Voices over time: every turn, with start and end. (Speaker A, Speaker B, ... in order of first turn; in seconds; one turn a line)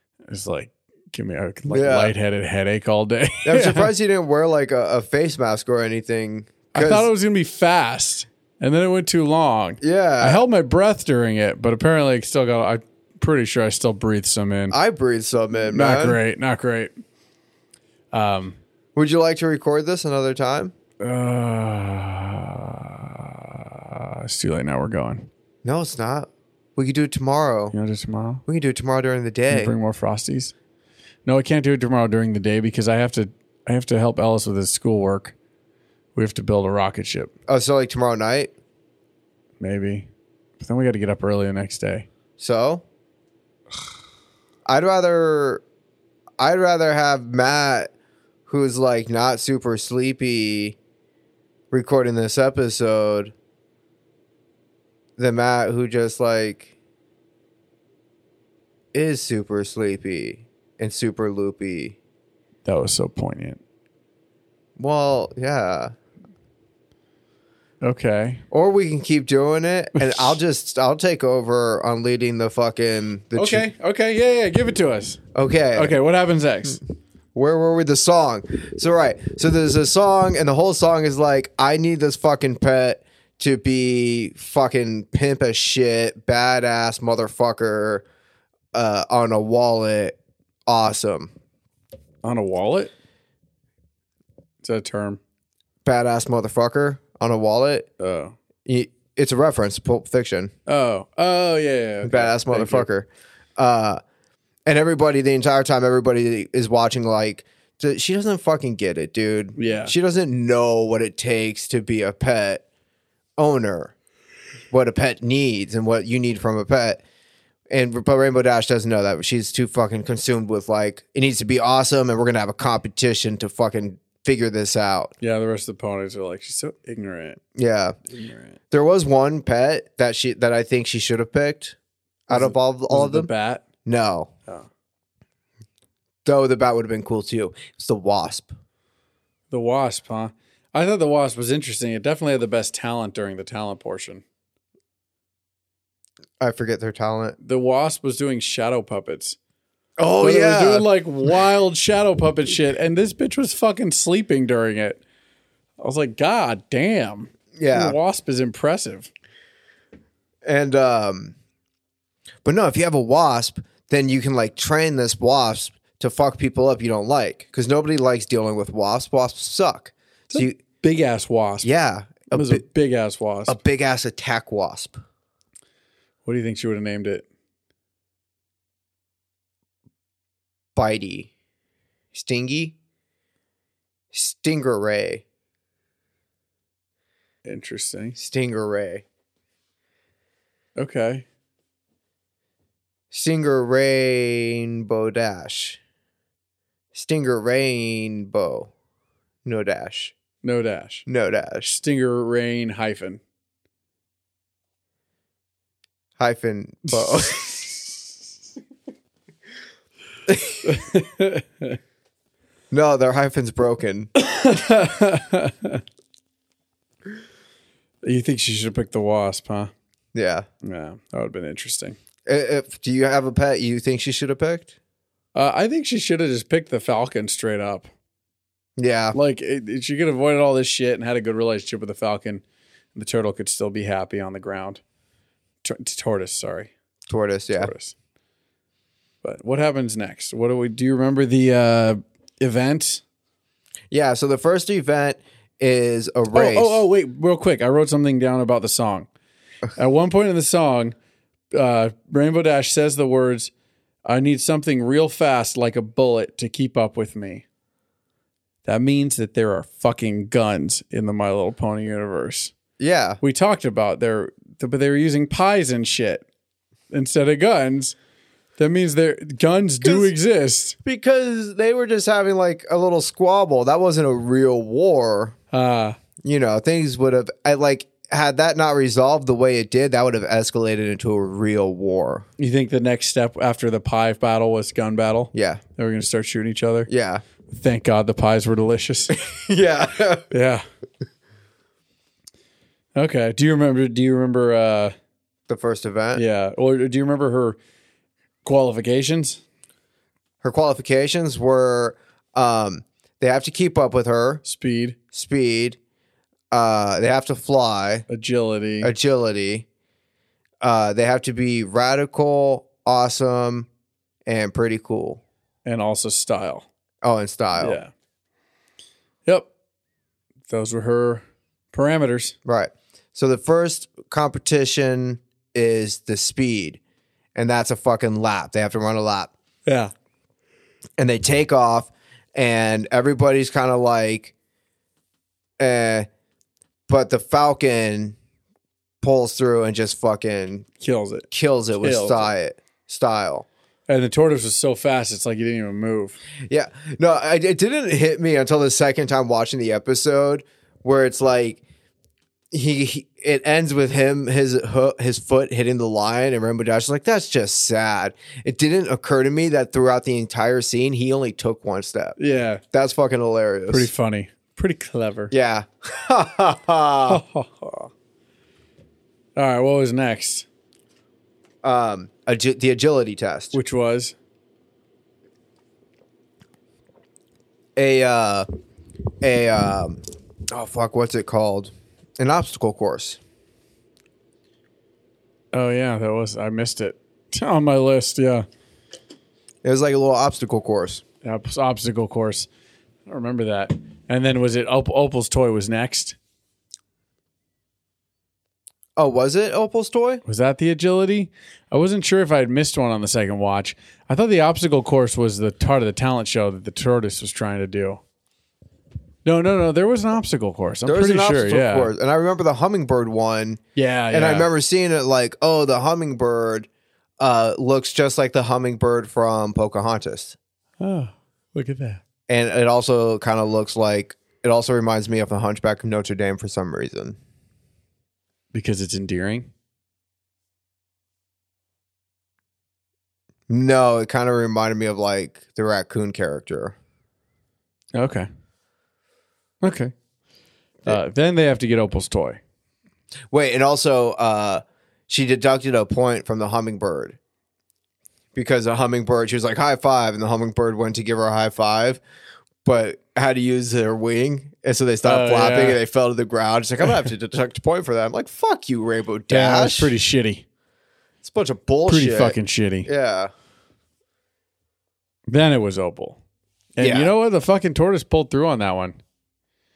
Speaker A: 0.3-3.9
Speaker B: 1.7-2.1
Speaker B: 3.4-7.1
Speaker A: 6.7-14.8
Speaker B: 9.8-10.4
Speaker B: 14.7-16.2
Speaker A: 15.7-16.9
Speaker A: 18.1-18.6
Speaker B: 18.9-20.7
Speaker A: 21.0-25.3
Speaker B: 25.6-27.7
Speaker A: 27.7-28.4
Speaker B: 28.4-29.7
Speaker A: 29.5-30.5
Speaker A: 31.2-35.3
Speaker A: 36.1-37.3
Speaker B: 37.5-38.5
Speaker A: 39.6-40.1
Speaker A: 40.6-42.0
Speaker B: 42.4-42.8
Speaker B: 44.6-45.6
Speaker B: 46.4-47.9
Speaker B: 48.5-50.8
Speaker B: 51.7-53.3
Speaker B: 55.2-56.7
Speaker B: 58.9-62.0
Speaker A: 62.6-63.6
Speaker B: 64.8-65.9
Speaker A: 67.8-68.4
Speaker B: 68.5-73.6
Speaker A: 70.0-70.3
Speaker A: 73.3-75.2
Speaker B: 75.3-75.9
Speaker A: 75.7-76.8
Speaker B: 77.3-88.0
Speaker B: 88.7-90.2
Speaker B: 90.7-91.3
Speaker A: 92.2-92.9
Speaker A: 94.6-95.2
Speaker B: 95.8-97.9
Speaker A: 98.0-98.3
Speaker B: 98.7-100.5
Speaker A: 100.7-102.9
Speaker B: 102.0-104.0
Speaker B: 104.7-112.6
Speaker A: 109.5-109.9
Speaker B: 113.4-113.9
Speaker B: 114.7-117.0
Speaker B: 117.7-125.1
Speaker A: 125.2-127.4
Speaker B: 127.5-128.0
Speaker A: 128.1-128.6
Speaker B: 128.7-131.8
Speaker B: 132.3-133.3
Speaker A: 132.3-133.6
Speaker B: 133.8-134.3
Speaker B: 136.2-138.5
Speaker A: 139.5-144.2
Speaker B: 146.4-147.4
Speaker A: 147.4-149.4
Speaker B: 150.0-150.9
Speaker A: 150.2-155.0
Speaker A: 155.8-159.1
Speaker B: 157.6-158.0
Speaker B: 160.4-161.3
Speaker B: 162.4-170.6
Speaker A: 170.3-171.7
Speaker B: 171.6-172.6
Speaker A: 172.3-173.6
Speaker B: 173.5-175.0
Speaker A: 176.2-177.2
Speaker B: 180.8-181.3
Speaker B: 182.1-182.7
Speaker B: 184.1-185.2
Speaker A: 187.4-188.2
Speaker B: 188.2-189.0
Speaker A: 190.8-191.2
Speaker B: 193.1-195.8
Speaker B: 196.9-198.7
Speaker B: 199.4-200.1
Speaker A: 200.4-201.1
Speaker B: 201.1-201.8
Speaker A: 201.6-203.2
Speaker B: 206.2-207.6
Speaker A: 206.9-207.9
Speaker B: 210.3-210.6
Speaker A: 210.6-211.8
Speaker B: 212.7-214.1
Speaker A: 214.2-215.8
Speaker A: 218.0-219.7
Speaker B: 220.1-220.5
Speaker A: 220.6-222.0
Speaker B: 222.2-224.7
Speaker A: 225.3-227.9
Speaker B: 228.8-229.2
Speaker A: 229.1-232.4
Speaker A: 232.9-234.8
Speaker A: 235.6-236.7
Speaker B: 237.1-237.7
Speaker A: 237.5-237.9
Speaker A: 239.2-243.0
Speaker B: 243.9-246.8
Speaker A: 246.3-249.1
Speaker A: 249.8-250.9
Speaker A: 251.5-253.5
Speaker A: 254.1-257.4
Speaker A: 258.6-262.5
Speaker B: 262.8-263.2
Speaker A: 263.2-266.2
Speaker A: 266.9-267.9
Speaker A: 268.6-270.8
Speaker B: 269.8-270.1
Speaker B: 270.8-275.4
Speaker A: 275.5-276.0
Speaker B: 276.2-282.2
Speaker A: 282.4-286.9
Speaker B: 285.3-285.6
Speaker B: 286.9-287.2
Speaker A: 287.5-289.2
Speaker B: 289.2-290.3
Speaker A: 290.3-290.6
Speaker A: 292.9-294.9
Speaker B: 295.5-296.2
Speaker A: 296.1-297.6
Speaker A: 298.4-299.4
Speaker B: 300.4-304.4
Speaker A: 304.4-304.9
Speaker B: 305.1-305.8
Speaker B: 306.5-308.0
Speaker A: 308.1-308.9
Speaker B: 308.8-309.6
Speaker B: 310.6-313.7
Speaker B: 314.2-315.2
Speaker A: 315.6-316.7
Speaker B: 317.0-317.8
Speaker A: 317.6-317.9
Speaker A: 320.5-322.4
Speaker B: 322.4-326.8
Speaker B: 327.3-329.3
Speaker A: 329.6-329.9
Speaker B: 331.0-334.3
Speaker B: 335.6-336.1
Speaker B: 336.9-338.2
Speaker B: 339.0-340.7
Speaker A: 340.8-342.3
Speaker B: 341.3-343.5
Speaker A: 343.9-346.2
Speaker B: 346.5-351.6
Speaker B: 352.5-362.1
Speaker A: 362.2-362.6
Speaker B: 362.7-363.9
Speaker A: 363.7-365.3
Speaker B: 365.3-367.2
Speaker A: 367.1-367.9
Speaker A: 369.4-370.4
Speaker B: 371.6-373.6
Speaker A: 373.5-374.1
Speaker B: 377.8-378.4
Speaker B: 379.2-383.2
Speaker A: 385.5-388.4
Speaker B: 389.6-391.0
Speaker A: 391.2-392.5
Speaker A: 393.1-396.2
Speaker B: 398.9-400.2
Speaker A: 400.2-408.0
Speaker A: 409.2-411.9
Speaker B: 410.9-416.7
Speaker A: 413.7-414.5
Speaker B: 417.2-420.4
Speaker A: 420.8-422.0
Speaker B: 422.3-427.2
Speaker A: 428.5-429.5
Speaker B: 433.5-436.8
Speaker A: 437.9-438.3
Speaker A: 439.6-439.9
Speaker A: 440.8-442.4
Speaker B: 443.3-447.2
Speaker B: 448.3-452.0
Speaker B: 452.6-459.9
Speaker A: 455.0-455.8
Speaker A: 459.3-460.4
Speaker B: 461.2-463.3
Speaker A: 461.9-462.9
Speaker A: 465.3-466.2
Speaker A: 466.8-469.0
Speaker B: 466.8-467.1